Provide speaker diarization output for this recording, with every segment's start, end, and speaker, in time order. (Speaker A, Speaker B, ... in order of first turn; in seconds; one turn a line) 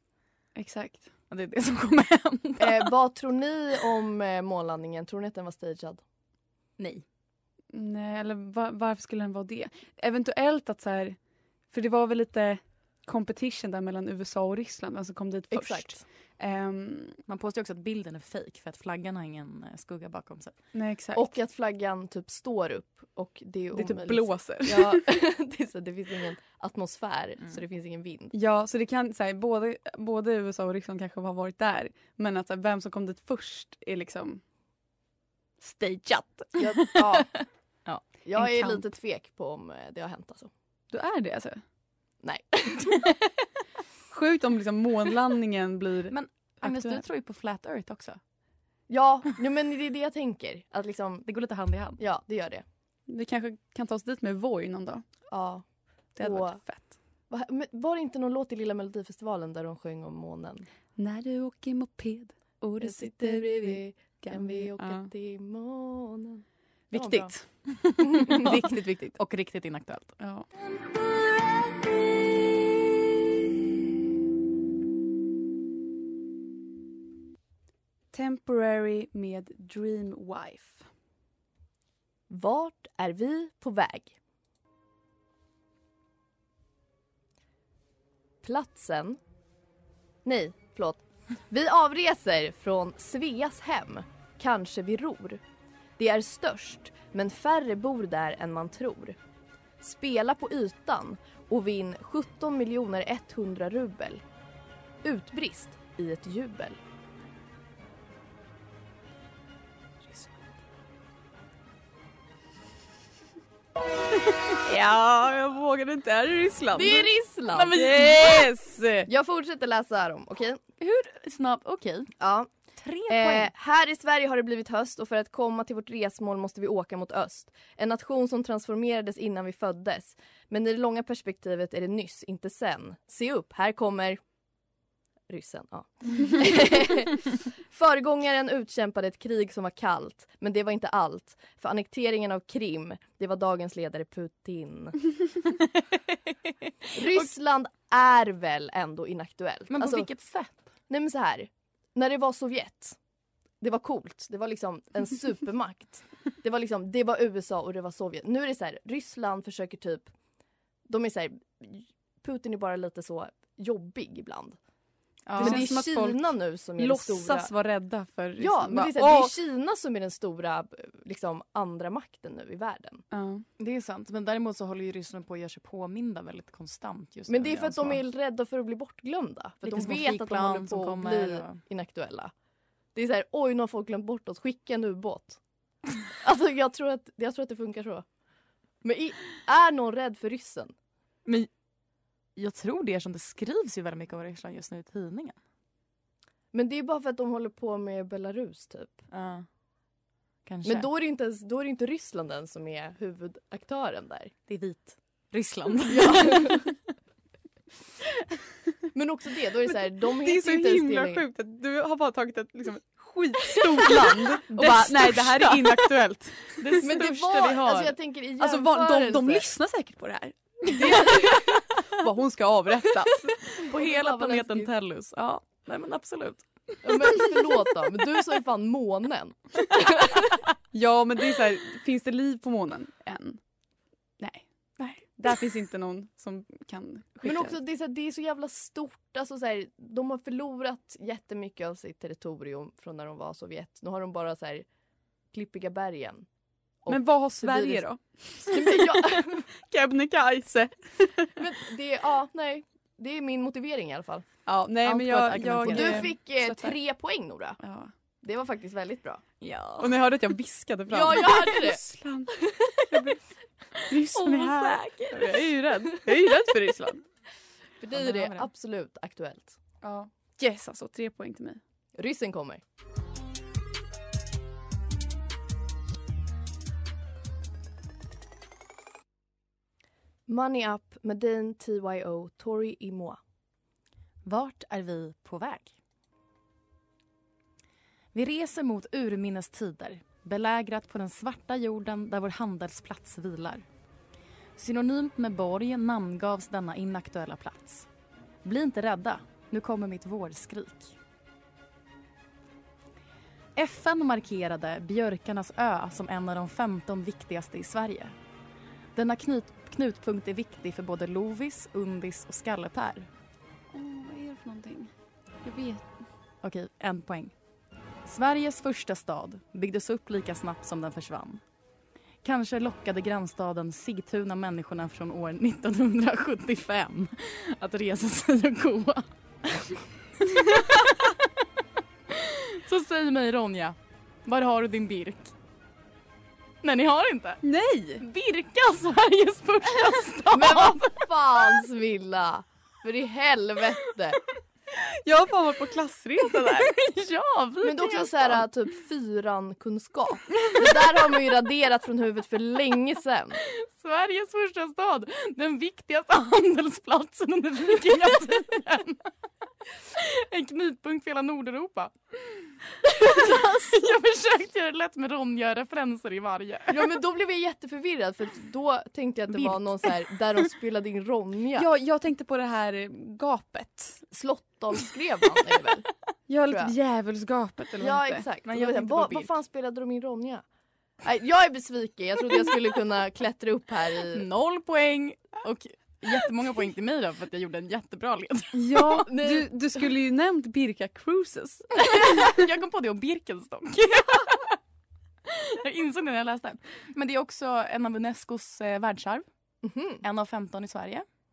Speaker A: 0.6-1.1
Speaker B: 1.3-2.9
Speaker C: 2.6-6.0
Speaker B: 6.8-7.0
Speaker A: 7.7-11.2
Speaker A: 11.7-17.2
Speaker C: 15.5-16.0
Speaker B: 17.3-20.5
Speaker A: 20.7-21.3
Speaker C: 21.1-28.3
Speaker A: 23.7-25.0
Speaker A: 28.3-34.4
Speaker A: 35.6-37.0
Speaker C: 36.6-37.3
Speaker C: 38.2-40.5
Speaker A: 38.4-38.8
Speaker A: 40.9-41.6
Speaker C: 42.2-43.0
Speaker A: 44.1-47.0
Speaker B: 46.1-48.2
Speaker C: 48.9-51.2
Speaker B: 51.2-52.0
Speaker C: 52.0-52.6
Speaker A: 53.1-55.0
Speaker C: 55.3-55.6
Speaker A: 56.1-56.9
Speaker C: 56.2-56.6
Speaker C: 57.3-60.6
Speaker A: 61.0-65.1
Speaker C: 62.8-66.4
Speaker B: 66.9-68.6
Speaker C: 66.9-67.3
Speaker C: 68.2-68.5
Speaker A: 68.3-69.2
Speaker B: 69.1-70.2
Speaker A: 70.2-70.5
Speaker A: 78.1-80.8
Speaker C: 82.3-84.1
Speaker C: 88.4-89.2
Speaker C: 90.2-95.4
Speaker C: 96.0-99.2
Speaker C: 99.8-104.2
Speaker C: 105.0-106.8
Speaker A: 114.6-117.1
Speaker C: 116.7-117.8
Speaker B: 117.5-118.4
Speaker A: 117.7-119.1
Speaker C: 119.1-120.6
Speaker B: 120.8-122.1
Speaker C: 122.2-122.5
Speaker B: 122.8-123.5
Speaker C: 123.1-134.2
Speaker C: 135.3-145.1
Speaker C: 146.9-150.1
Speaker B: 147.0-147.3
Speaker B: 149.7-150.6
Speaker C: 150.9-153.0
Speaker C: 153.6-160.1
Speaker C: 160.9-164.6
Speaker B: 165.2-165.7
Speaker C: 165.4-167.5
Speaker A: 165.4-169.3
Speaker C: 168.4-173.0
Speaker A: 173.1-173.4
Speaker B: 173.6-178.0
Speaker C: 177.3-182.3
Speaker B: 179.6-181.6
Speaker C: 182.9-185.4
Speaker C: 186.2-188.0
Speaker C: 188.8-190.7
Speaker B: 192.3-195.3
Speaker C: 196.5-199.1
Speaker B: 199.1-199.4
Speaker B: 200.4-200.9
Speaker C: 200.6-204.3
Speaker B: 204.5-206.6
Speaker C: 205.9-206.7
Speaker C: 208.9-211.2
Speaker A: 209.7-216.9
Speaker C: 214.5-215.1
Speaker B: 214.6-215.7
Speaker B: 216.5-217.9
Speaker C: 216.8-219.4
Speaker A: 218.4-223.3
Speaker C: 220.7-221.6
Speaker B: 223.5-226.4
Speaker C: 223.6-224.7
Speaker C: 226.8-230.3
Speaker A: 230.7-233.4
Speaker A: 234.2-234.4
Speaker B: 234.8-235.0
Speaker A: 235.2-237.6
Speaker C: 237.2-244.6
Speaker C: 245.3-246.2
Speaker C: 246.8-247.8
Speaker A: 246.9-251.4
Speaker C: 248.4-249.4
Speaker C: 251.3-254.3
Speaker A: 254.4-256.8
Speaker C: 254.8-257.6
Speaker B: 255.6-256.1
Speaker A: 257.6-257.9
Speaker C: 258.2-259.2
Speaker B: 259.4-259.9
Speaker A: 259.8-262.3
Speaker C: 260.9-262.8
Speaker A: 262.9-263.2
Speaker A: 263.9-267.0
Speaker B: 264.1-265.1
Speaker C: 264.5-264.8
Speaker C: 267.8-269.6
Speaker B: 267.9-268.5
Speaker A: 269.8-271.6
Speaker C: 272.0-272.6
Speaker C: 280.3-283.2
Speaker B: 284.2-285.8
Speaker B: 288.1-293.6
Speaker B: 294.6-297.9
Speaker B: 298.4-300.9
Speaker B: 303.6-308.1
Speaker B: 308.9-313.1
Speaker A: 313.7-314.9
Speaker A: 315.4-316.0
Speaker B: 316.4-317.3
Speaker B: 318.1-321.4
Speaker B: 322.2-329.1
Speaker B: 330.4-331.1
Speaker B: 332.1-335.3
Speaker B: 336.6-337.4
Speaker A: 337.4-338.0
Speaker B: 338.0-341.0
Speaker C: 340.3-344.2
Speaker A: 344.8-346.7
Speaker B: 346.6-348.5
Speaker C: 347.6-353.4
Speaker B: 353.5-359.1
Speaker B: 359.9-367.0
Speaker C: 366.7-371.7
Speaker B: 369.3-370.0
Speaker A: 371.6-374.0
Speaker C: 374.1-375.9
Speaker A: 376.3-378.2
Speaker C: 377.8-380.4
Speaker B: 378.4-379.3
Speaker C: 381.0-384.2
Speaker B: 384.1-389.1
Speaker A: 388.5-392.3
Speaker C: 389.1-389.5
Speaker B: 391.9-394.6
Speaker B: 395.3-399.2
Speaker C: 399.6-400.0
Speaker B: 400.0-401.0